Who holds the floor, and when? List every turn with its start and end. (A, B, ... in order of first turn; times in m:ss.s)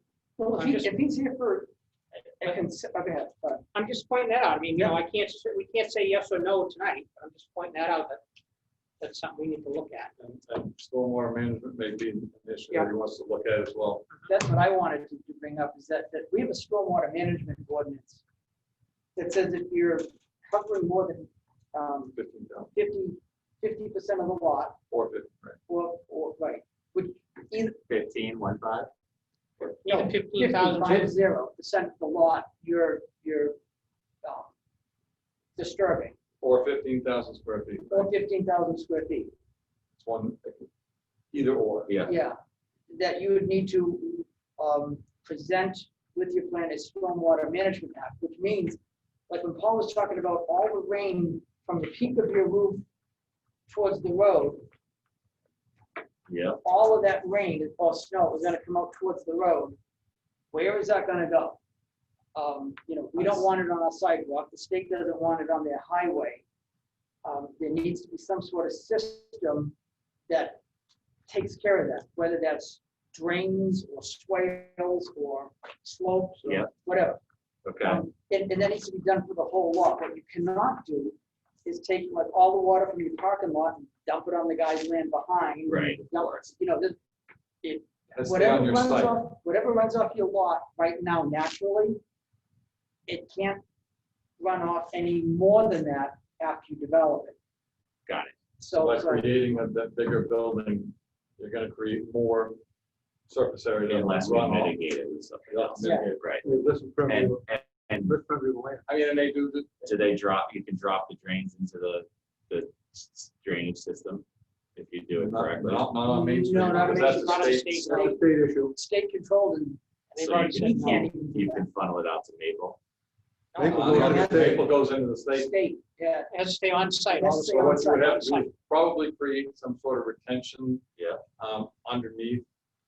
0:00.4-0:01.7 A
0:00.5-0:00.9 B
0:02.4-0:03.6 A
0:03.8-0:08.2 B
0:09.0-0:10.1 B
0:10.2-0:14.1 C
0:14.3-0:18.2 A
0:19.2-0:22.2 A
0:22.1-0:22.7 C
0:22.7-0:24.8 A
0:24.9-0:25.6 C
0:25.7-0:27.8 A
0:27.9-0:28.9 D
0:29.8-0:31.1 B
0:29.9-0:33.6 A
0:34.2-0:34.5 A
0:35.6-0:36.2 A
0:36.4-0:38.1 C
0:37.9-0:39.3 A
0:40.0-0:40.7 C
0:41.3-0:42.0 C
0:41.9-0:42.1 D
0:42.0-0:42.4 A
0:42.9-0:48.8 A
0:49.3-0:52.8 A
0:53.7-0:54.6 A
0:56.3-0:56.6 D
0:56.6-0:59.8 A
1:00.5-1:01.6 A
1:02.4-1:06.4 A
1:07.2-1:09.7 A
1:10.3-1:10.6 A
1:11.3-1:17.2 A
1:16.4-1:16.7 D
1:17.6-1:18.0 D
1:17.8-1:27.0 A
1:25.7-1:26.5 D
1:27.6-1:32.0 A
1:28.1-1:29.2 C
1:33.1-1:33.6 A
1:34.4-1:37.4 A
1:38.1-1:38.4 D
1:38.6-1:39.5 A
1:38.8-1:42.6 C
1:43.3-1:44.8 C
1:43.9-1:46.4 D
1:45.5-1:46.4 C
1:45.8-1:46.1 A
1:46.4-1:47.5 E
1:47.1-1:48.2 D
1:48.0-1:48.8 E
1:48.9-1:49.9 C
1:49.8-1:54.2 D
1:54.8-1:55.9 D
1:55.2-1:57.8 C
1:56.0-1:58.2 A
1:56.7-1:58.2 B
1:57.9-1:58.8 E
1:58.7-2:01.7 A
2:00.1-2:01.1 B
2:00.2-2:02.8 D
2:03.6-2:04.7 E
2:03.6-2:06.3 A
2:03.6-2:04.0 B
2:03.7-2:05.5 C
2:06.3-2:08.5 B
2:07.1-2:08.5 A
2:07.4-2:10.8 C
2:11.0-2:11.2 D
2:11.4-2:12.5 C